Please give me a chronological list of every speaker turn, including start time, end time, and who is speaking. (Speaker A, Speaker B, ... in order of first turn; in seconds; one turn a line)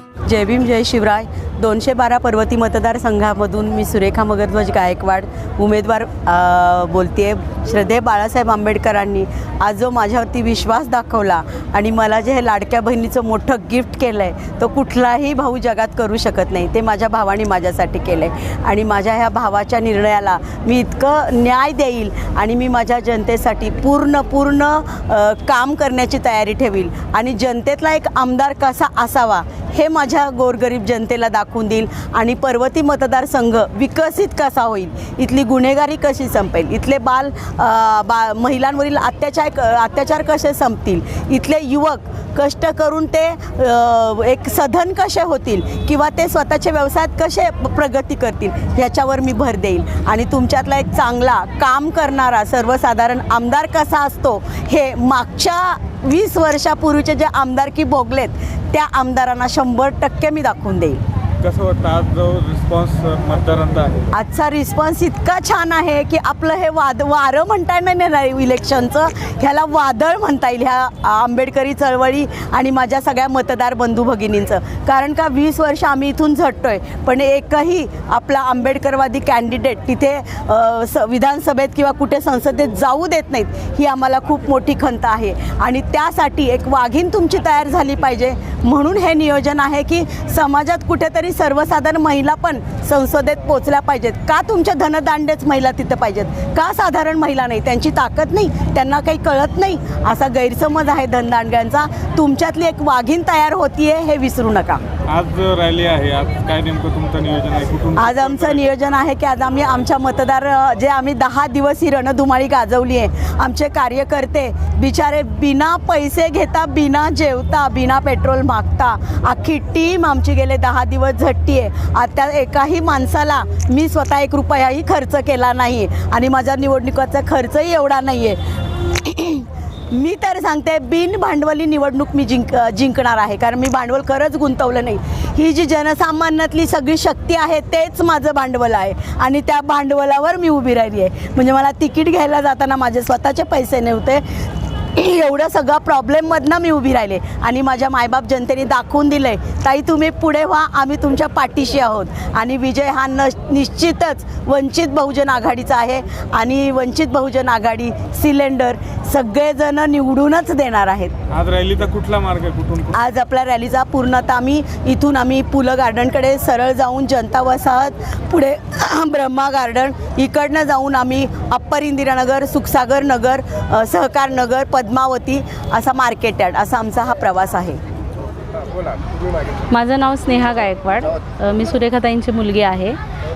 Speaker A: 0.2-61.0
Speaker B: 61.4-64.0
Speaker A: 64.1-104.8
Speaker B: 105.1-108.6
Speaker A: 108.0-161.1
Speaker B: 161.3-163.0
Speaker A: 162.9-177.8
Speaker C: 179.7-183.0